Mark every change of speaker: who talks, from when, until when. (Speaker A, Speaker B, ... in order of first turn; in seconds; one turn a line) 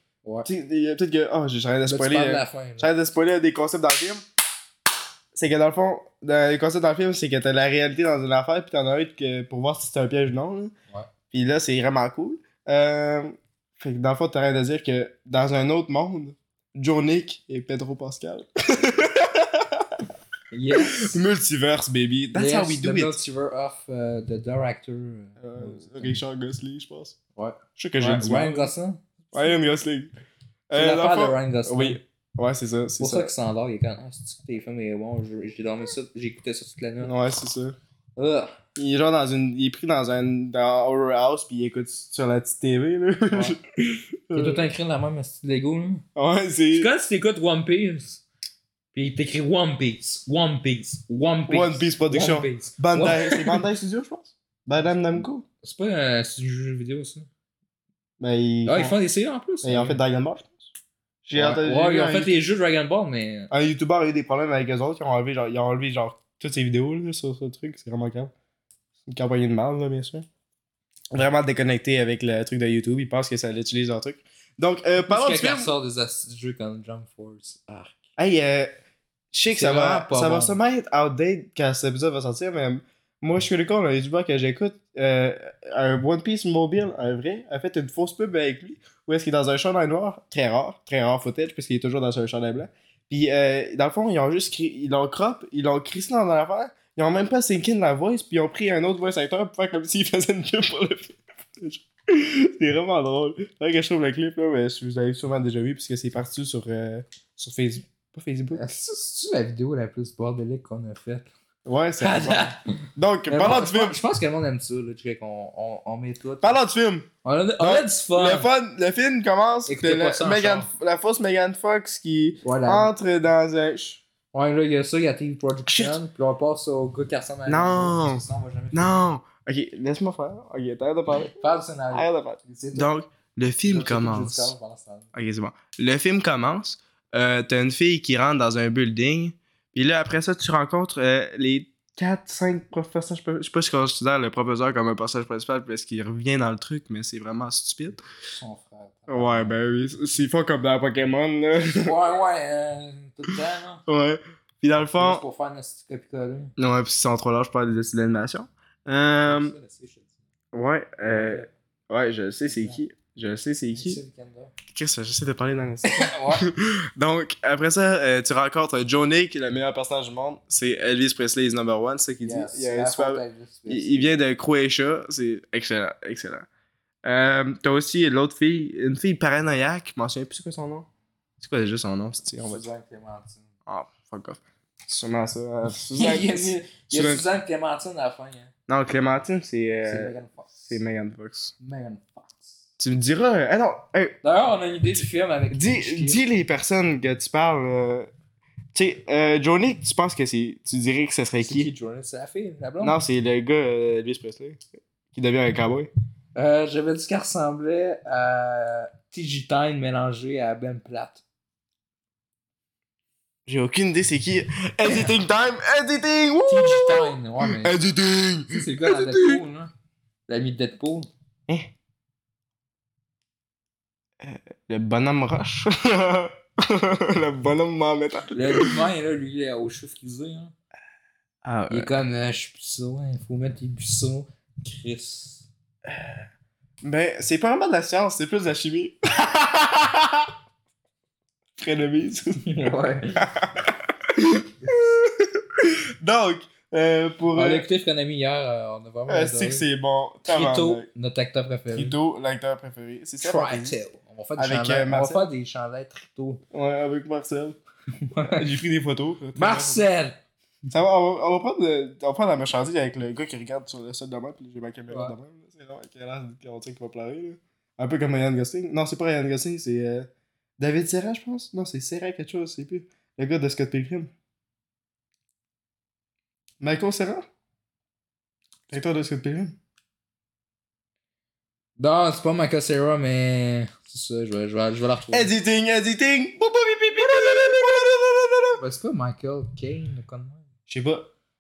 Speaker A: 0.2-0.5
Speaker B: 0.5-4.2
Speaker A: 1.9-2.9
Speaker B: 5.3-10.7
Speaker B: 11.3-20.0
Speaker A: 20.5-21.2
Speaker B: 20.7-23.2
Speaker A: 22.3-26.2
Speaker B: 25.4-27.2
Speaker A: 27.4-29.5
Speaker B: 27.8-28.7
Speaker B: 29.3-30.1
Speaker B: 30.7-33.3
Speaker A: 30.8-32.0
Speaker A: 33.0-37.1
Speaker B: 37.0-37.8
Speaker A: 38.2-38.5
Speaker B: 38.8-44.6
Speaker A: 43.3-43.6
Speaker A: 44.3-46.0
Speaker B: 46.2-46.9
Speaker A: 46.7-48.2
Speaker A: 48.9-53.6
Speaker B: 51.5-55.4
Speaker A: 55.6-57.3
Speaker B: 58.2-59.0
Speaker A: 58.7-60.0
Speaker B: 59.6-60.5
Speaker B: 61.2-62.4
Speaker A: 61.4-63.5
Speaker B: 63.5-68.3
Speaker B: 69.1-70.3
Speaker B: 71.1-75.7
Speaker A: 75.0-78.0
Speaker B: 78.2-78.7
Speaker B: 79.3-108.7
Speaker A: 79.5-80.5
Speaker A: 108.5-111.3
Speaker B: 111.7-114.0
Speaker A: 112.0-112.7
Speaker A: 113.3-116.6
Speaker B: 116.4-124.0
Speaker A: 117.2-118.5
Speaker A: 119.7-120.7
Speaker A: 122.4-122.9
Speaker A: 124.3-129.0
Speaker B: 125.7-126.0
Speaker B: 127.5-131.3
Speaker A: 131.2-132.9
Speaker B: 131.9-134.5
Speaker A: 133.7-135.1
Speaker B: 135.1-148.0
Speaker A: 148.3-149.6
Speaker B: 149.1-152.0
Speaker A: 151.8-153.8
Speaker B: 153.9-155.2
Speaker A: 154.9-156.5
Speaker B: 156.6-159.6
Speaker A: 159.2-160.1
Speaker B: 160.5-164.0
Speaker A: 161.1-161.5
Speaker A: 163.8-164.5
Speaker B: 164.7-176.5
Speaker A: 165.8-166.5
Speaker A: 172.2-174.1
Speaker B: 177.0-180.9
Speaker B: 181.4-182.6
Speaker A: 182.4-183.5
Speaker B: 183.7-187.2
Speaker A: 185.9-188.5
Speaker B: 188.7-190.1
Speaker A: 189.8-190.8
Speaker B: 190.7-191.5
Speaker A: 191.6-192.6
Speaker B: 192.8-194.2
Speaker A: 194.2-196.2
Speaker B: 195.5-198.1
Speaker B: 198.7-201.7
Speaker A: 201.4-203.0
Speaker B: 202.8-205.9
Speaker A: 206.3-211.2
Speaker B: 213.5-219.4
Speaker A: 216.5-217.8
Speaker A: 218.5-219.7
Speaker A: 220.3-221.1
Speaker B: 224.2-228.8
Speaker A: 228.3-230.5
Speaker B: 231.4-231.9
Speaker A: 231.7-235.5
Speaker B: 236.8-240.3
Speaker B: 241.6-242.4
Speaker A: 242.4-243.2
Speaker B: 243.2-247.7
Speaker A: 244.6-244.9
Speaker A: 247.3-249.7
Speaker B: 249.1-250.9
Speaker A: 250.3-251.9
Speaker B: 251.7-253.8
Speaker A: 253.2-256.4
Speaker B: 254.4-255.3
Speaker B: 256.5-257.6
Speaker A: 258.0-258.4
Speaker B: 258.2-259.9
Speaker A: 259.4-260.2
Speaker B: 260.7-274.1
Speaker A: 264.9-265.1
Speaker B: 276.6-277.3
Speaker B: 278.7-279.6
Speaker A: 281.8-285.3
Speaker B: 285.1-288.6
Speaker A: 287.1-287.5
Speaker A: 288.6-290.5
Speaker B: 290.7-291.1